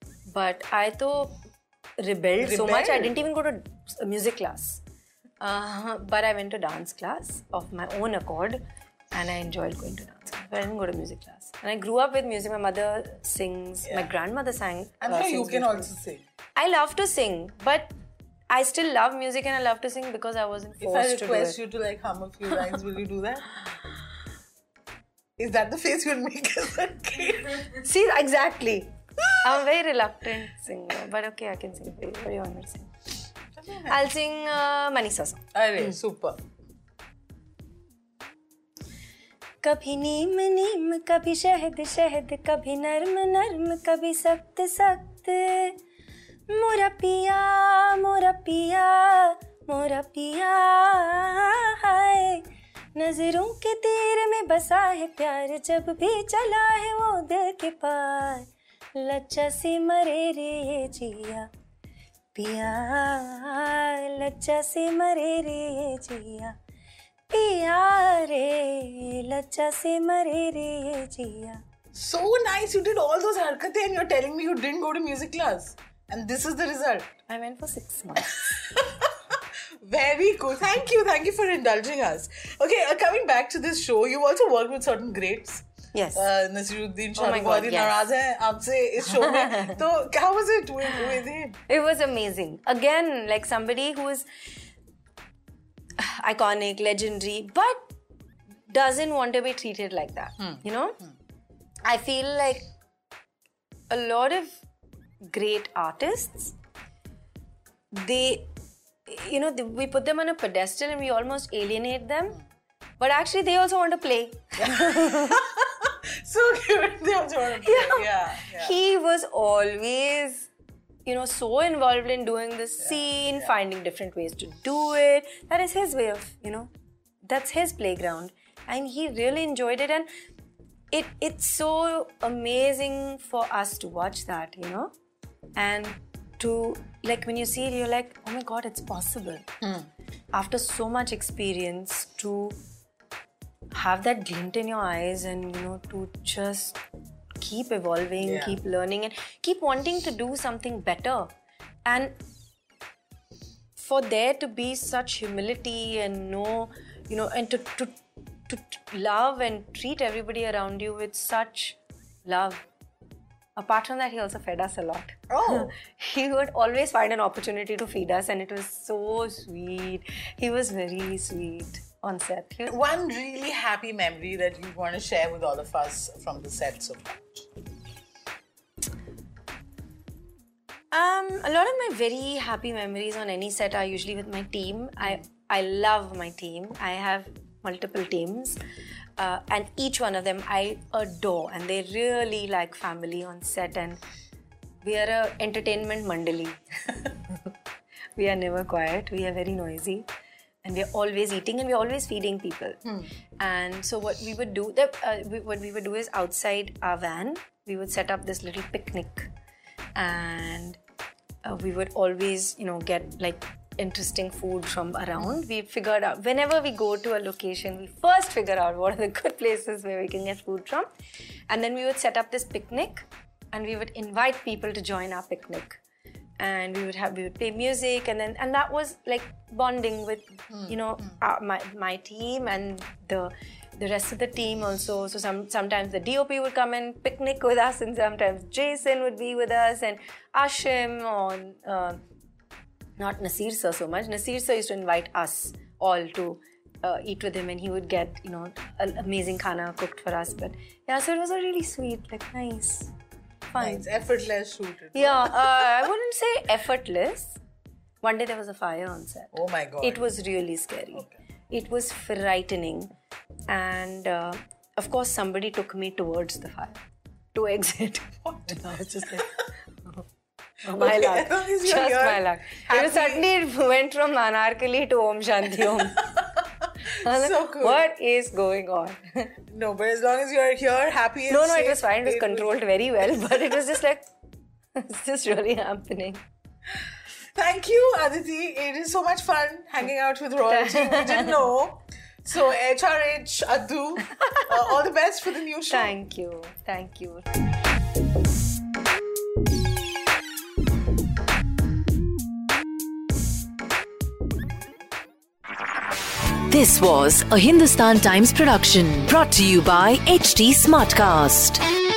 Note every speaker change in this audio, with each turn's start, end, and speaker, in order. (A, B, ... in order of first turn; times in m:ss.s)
0:00.3-0:01.4 A
0:02.0-0:04.8 A
0:02.4-0:03.2 B
0:05.4-0:08.6 A
0:09.1-0:16.0 A
0:13.8-0:14.1 B
0:15.0-0:16.2 B
0:16.6-0:17.9 A
0:18.5-0:21.6 A
0:20.8-0:23.5 B
0:25.4-0:27.7 B
0:27.7-0:32.9 A
0:33.6-0:33.9 B
0:33.9-0:35.8 A
0:35.6-0:36.4 B
0:39.6-0:45.8 A
0:46.5-1:01.5 A
1:02.3-1:06.6 A
1:07.3-1:11.6 A
1:11.9-1:17.1 B
1:17.3-1:18.4 A
1:18.3-1:25.6 B
1:25.9-1:26.3 A
1:26.2-1:31.6 B
1:27.2-1:28.0 A
1:29.1-1:29.8 A
1:31.7-1:34.3 A
1:36.0-1:37.9 A
1:38.7-1:41.0 A
1:41.8-1:42.7 A
1:43.9-1:44.6 A
1:45.2-1:46.6 A
1:47.9-1:48.5 A
1:49.1-1:52.4 A
1:53.0-1:55.4 A
1:54.6-1:58.8 B
1:57.5-2:00.5 A
2:01.1-2:06.7 A
2:02.8-2:03.5 B
2:07.2-2:10.1 A
2:10.9-2:14.9 A
2:15.6-2:19.5 A
2:19.6-2:19.9 B
2:20.3-2:22.6 A
2:23.7-2:26.8 A
2:27.4-2:31.3 A
2:28.2-2:28.6 B
2:31.8-2:32.2 A
2:33.8-2:38.0 A
2:38.5-2:42.6 A
2:43.6-2:52.8 A
2:45.3-2:45.7 B
2:52.7-2:57.5 B
3:00.9-3:08.6 A
3:09.2-3:14.0 A
3:14.8-3:17.4 A
3:18.2-3:20.1 A
3:20.6-3:22.8 A
3:22.8-3:23.1 B
3:23.4-3:29.3 A
3:30.0-3:30.8 A
3:31.4-3:40.9 A
3:41.5-3:45.8 A
3:46.4-4:02.0 A
3:50.5-3:50.8 B
4:03.0-4:12.9 A
4:13.5-4:13.8 A
4:13.6-4:15.7 B
4:15.0-4:17.4 A
4:18.0-4:22.9 A
4:19.3-4:20.1 B
4:23.5-4:26.8 A
4:27.3-4:30.0 A
4:30.6-4:36.2 A
4:30.7-4:33.3 B
4:36.2-4:37.8 B
4:36.8-4:39.3 A
4:39.5-4:43.6 B
4:41.3-4:44.1 A
4:44.8-4:46.2 A
4:47.4-4:55.9 B
4:50.5-4:51.4 A
4:55.7-4:57.3 A
5:06.5-5:11.6 C